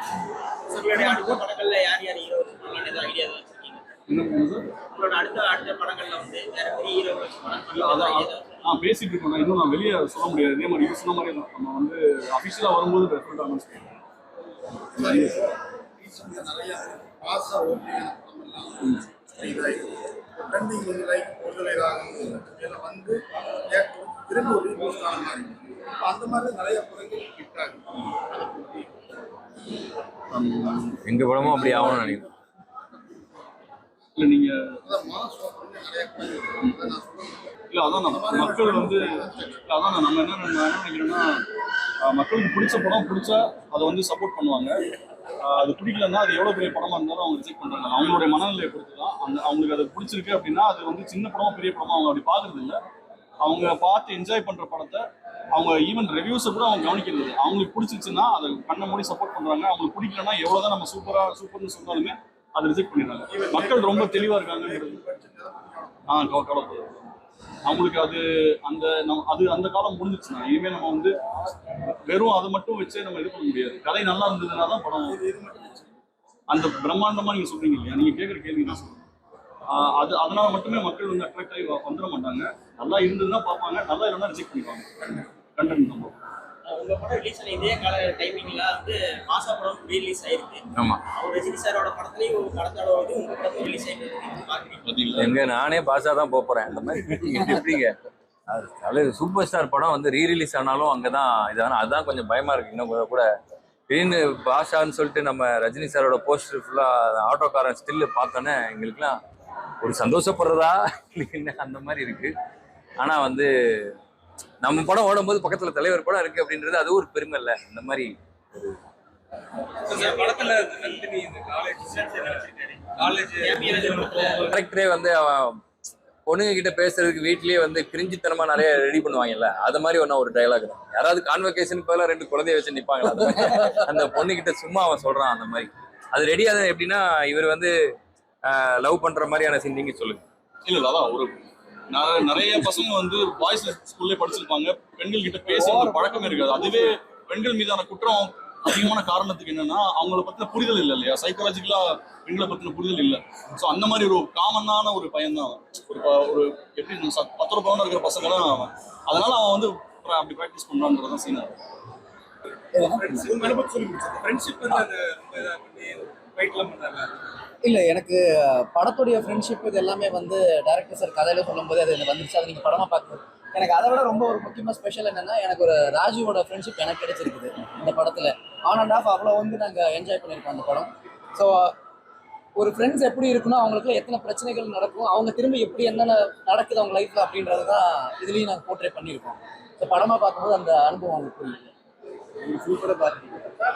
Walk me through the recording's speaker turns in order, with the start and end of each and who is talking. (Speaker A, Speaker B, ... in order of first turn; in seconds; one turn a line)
Speaker A: 0.7-3.9
Speaker B: 0.9-1.4
Speaker C: 4.1-4.7
Speaker A: 4.9-8.6
Speaker C: 7.7-14.0
Speaker B: 14.9-15.4
Speaker C: 15.0-15.4
Speaker B: 16.0-28.9
Speaker C: 30.3-32.0
Speaker D: 31.0-32.2
Speaker B: 31.5-32.3
Speaker C: 34.2-34.8
Speaker B: 34.9-37.5
Speaker C: 37.7-41.4
Speaker B: 38.0-39.5
Speaker C: 42.0-44.7
Speaker C: 45.4-52.8
Speaker C: 53.4-65.0
Speaker B: 63.3-66.1
Speaker C: 66.1-67.1
Speaker C: 67.7-71.1
Speaker C: 71.8-75.3
Speaker B: 75.0-75.8
Speaker C: 76.5-79.0
Speaker C: 79.7-84.9
Speaker C: 85.5-86.2
Speaker A: 86.7-94.9
Speaker D: 90.8-91.0
Speaker C: 94.8-95.4
Speaker D: 95.2-97.9
Speaker D: 98.5-103.2
Speaker D: 103.9-109.2
Speaker D: 109.8-112.3
Speaker D: 113.0-113.5
Speaker D: 114.6-118.8
Speaker E: 119.9-124.6
Speaker A: 119.9-121.0
Speaker A: 121.8-124.4
Speaker D: 124.5-125.6
Speaker D: 126.2-137.7
Speaker D: 138.5-140.2
Speaker C: 140.6-161.6
Speaker F: 162.7-163.6
Speaker E: 162.9-167.2
Speaker B: 163.3-164.2
Speaker F: 167.6-181.7
Speaker F: 182.6-191.7
Speaker F: 192.6-193.4